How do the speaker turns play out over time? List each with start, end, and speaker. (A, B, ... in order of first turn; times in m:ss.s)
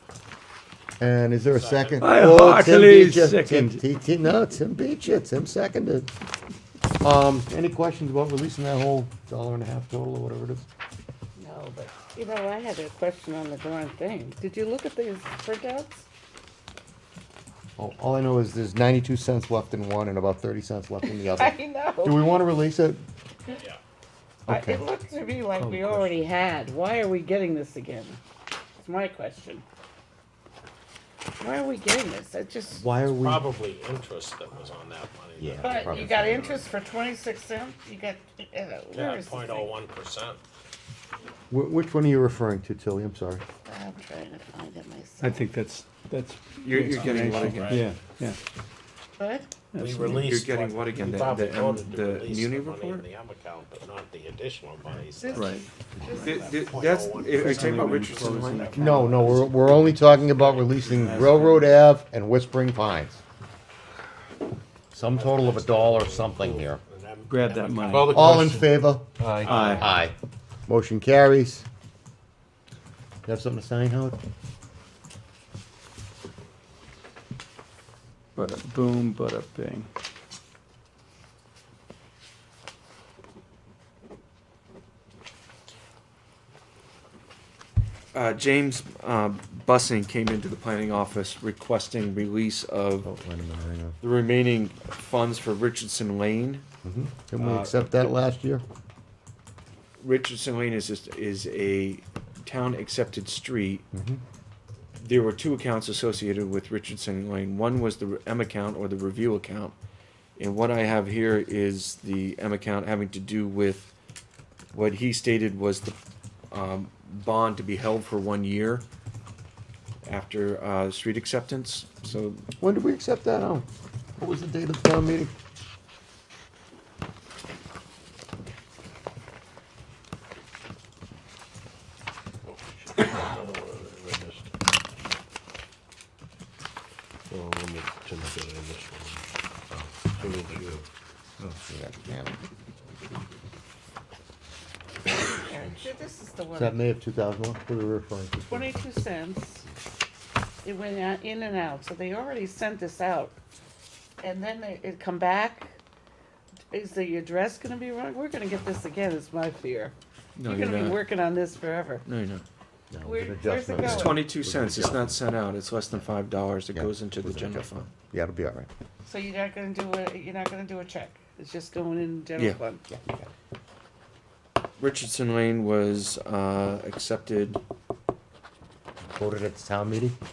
0:01.0-0:06.1 A
0:01.5-0:02.2 B
0:02.0-0:03.8 C
0:02.0-0:03.8 D
0:07.0-0:10.7 A
0:11.4-0:16.1 E
0:17.8-0:23.0 A
0:21.0-0:22.3 E
0:23.5-0:23.8 B
0:24.5-0:24.9 A
0:24.5-0:28.2 E
0:25.6-0:26.3 A
0:28.8-0:29.6 E
0:31.4-0:32.8 E
0:32.7-0:33.5 A
0:33.2-0:36.7 B
0:35.4-0:36.6 A
0:35.6-0:39.7 E
0:38.9-0:40.4 B
0:41.5-0:43.4 A
0:43.7-0:45.4 E
0:45.2-0:48.4 D
0:46.6-0:47.8 C
0:46.8-0:47.9 B
0:49.2-0:49.6 E
0:49.7-0:50.2 D
0:49.8-0:55.6 B
0:50.1-0:53.0 C
0:55.2-0:56.5 E
0:55.3-0:56.4 D
0:56.2-0:58.2 B
0:56.2-0:59.0 C
0:57.3-1:00.2 D
0:58.7-1:03.2 A
1:00.3-1:01.3 B
1:00.9-1:01.7 D
1:04.9-1:06.8 A
1:05.0-1:10.0 B
1:07.3-1:08.4 D
1:08.0-1:10.2 A
1:09.4-1:09.9 D
1:10.7-1:11.7 A
1:13.2-1:14.2 A
1:18.4-1:19.9 D
1:28.1-1:33.1 C
1:33.0-1:34.0 A
1:34.0-1:36.7 C
1:36.8-1:38.6 A
1:37.4-1:38.0 C
1:40.0-1:43.9 C
1:43.9-1:44.2 A
1:45.0-1:49.8 C
1:50.4-1:53.9 C
1:54.7-1:56.0 C
1:56.5-1:58.8 C
2:00.0-2:02.4 C
2:02.6-2:05.3 A
2:12.4-2:14.5 B
2:17.3-2:19.2 B
2:20.1-2:20.8 B
2:21.4-2:22.4 A
2:25.1-2:26.8 E
2:26.6-2:28.8 A
2:28.5-2:29.6 E
2:30.6-2:33.4 E
2:34.2-2:35.8 E
2:36.7-2:42.0 E
2:40.4-2:41.0 C
2:42.0-2:42.4 C
2:42.9-2:45.2 A
2:43.0-2:44.3 E
2:43.8-2:47.9 C
2:46.7-2:48.7 A
2:49.0-2:52.8 E
2:52.9-2:53.3 A
2:54.8-2:57.6 C
2:59.0-3:00.2 A